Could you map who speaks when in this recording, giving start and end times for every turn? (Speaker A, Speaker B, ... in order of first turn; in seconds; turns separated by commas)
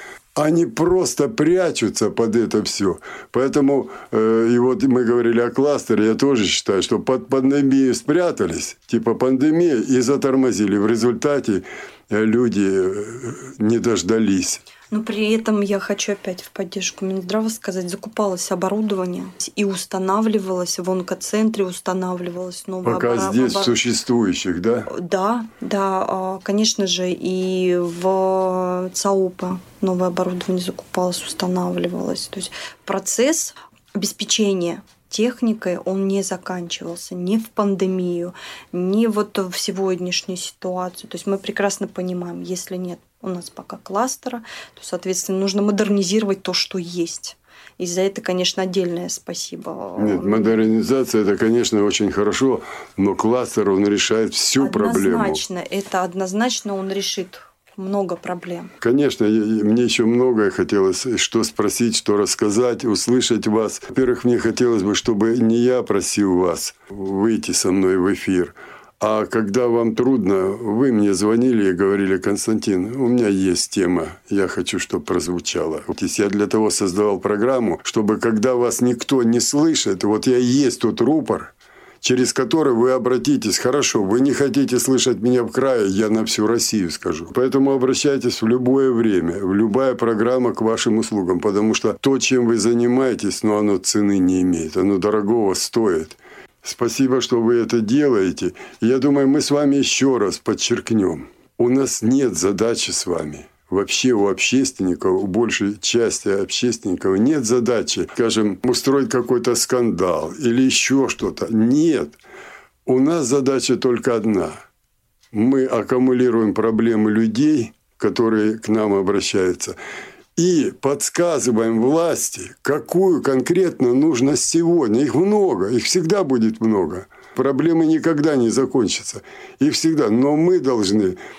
Speaker A: 0.3-14.6, Speaker B: 14.9-23.8, Speaker A: 22.8-24.9, Speaker B: 24.9-50.6, Speaker A: 50.0-55.4, Speaker B: 54.6-58.7, Speaker A: 58.8-112.2, Speaker A: 112.8-114.6, Speaker A: 115.3-119.8, Speaker A: 120.3-131.2